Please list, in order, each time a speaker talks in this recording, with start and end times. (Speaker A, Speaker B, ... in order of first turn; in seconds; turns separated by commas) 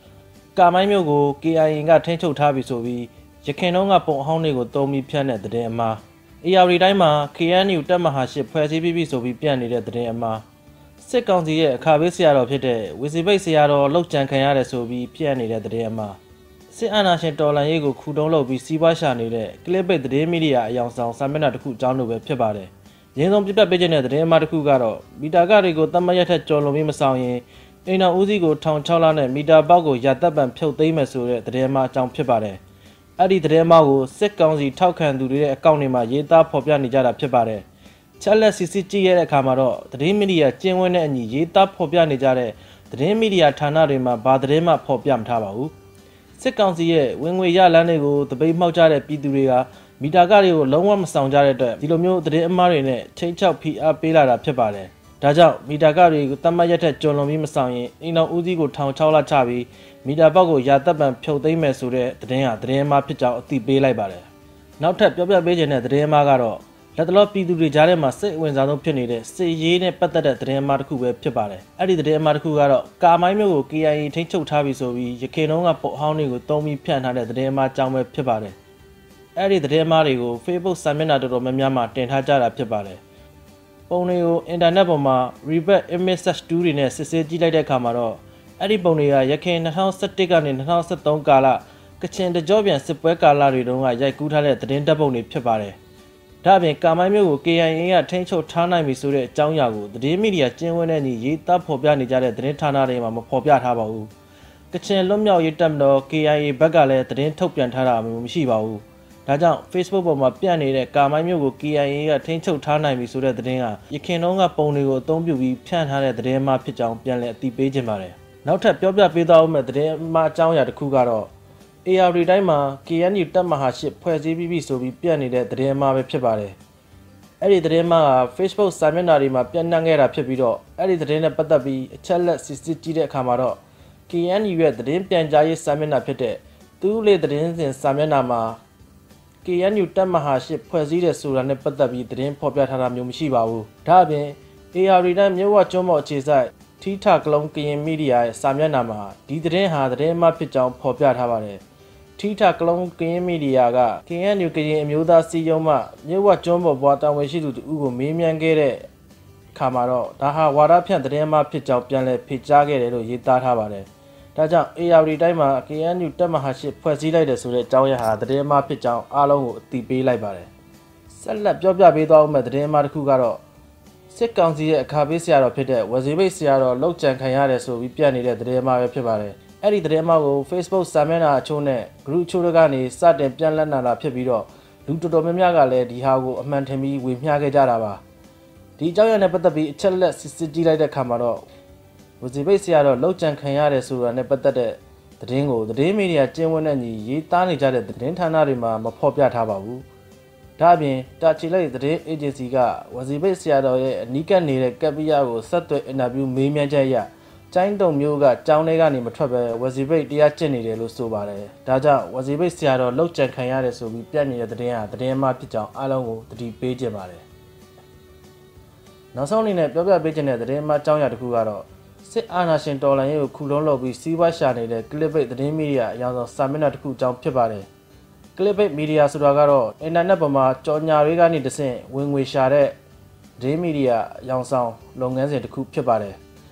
Speaker A: 0.5-10.4, Speaker A: 11.0-16.2, Speaker A: 16.7-32.6, Speaker A: 33.2-37.6, Speaker A: 38.2-45.7, Speaker A: 46.4-64.3, Speaker A: 64.8-78.6, Speaker A: 79.3-83.0, Speaker A: 83.9-95.8, Speaker A: 96.4-104.1, Speaker A: 104.7-121.3, Speaker A: 121.8-126.6, Speaker A: 127.4-138.6, Speaker A: 139.4-151.6, Speaker A: 152.2-158.8, Speaker A: 159.5-170.5, Speaker A: 171.1-173.4, Speaker A: 174.1-188.0, Speaker A: 188.8-191.4, Speaker A: 192.2-199.8, Speaker A: 200.6-217.2, Speaker A: 219.1-227.7, Speaker A: 228.3-232.8, Speaker A: 233.4-236.2